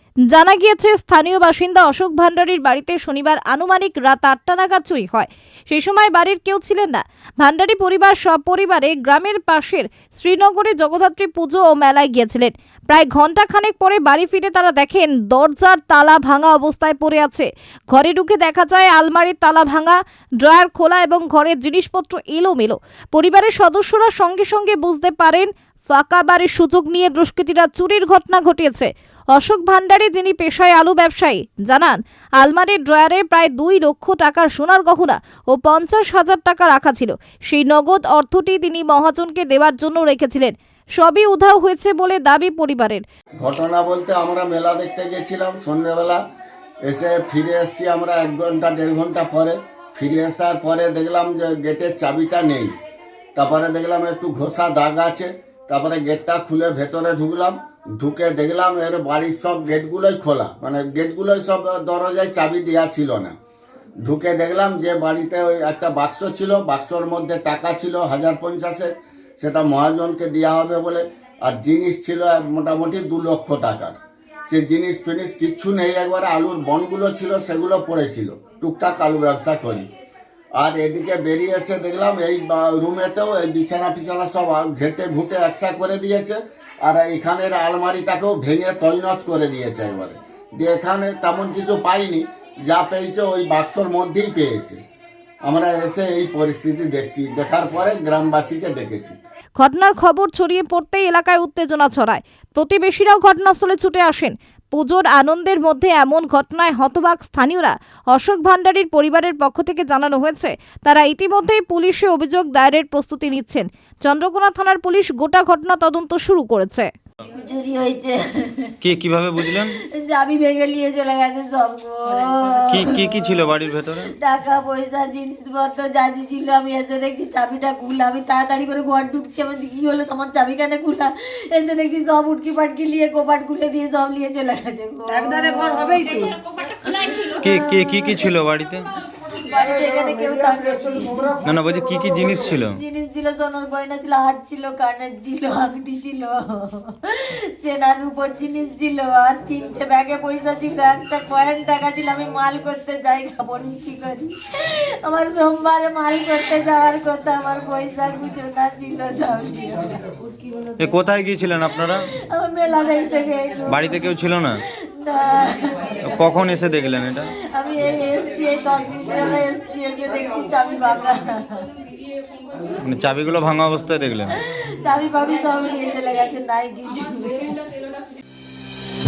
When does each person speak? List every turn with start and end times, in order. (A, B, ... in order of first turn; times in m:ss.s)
0:00.3-0:43.0 A
0:43.4-0:46.2 B
0:46.9-0:52.7 B
0:53.3-1:03.4 B
1:04.0-1:14.0 B
1:14.5-1:19.9 B
1:20.6-1:34.8 B
1:35.4-1:39.2 B
1:39.6-1:56.9 A
1:57.3-1:58.7 C
1:58.8-1:59.8 D
1:59.8-2:03.0 C
2:02.7-2:04.1 D
2:04.1-2:17.1 C
2:17.4-2:18.9 D
2:19.3-2:21.4 C
2:21.4-2:22.8 D
2:22.7-2:40.0 C
2:40.8-2:42.1 D
2:42.1-2:44.1 C
2:43.7-2:44.6 D
2:44.8-2:46.0 C
2:46.0-2:47.3 D
2:47.4-2:51.7 C
2:52.8-2:54.4 D
2:54.4-2:57.4 C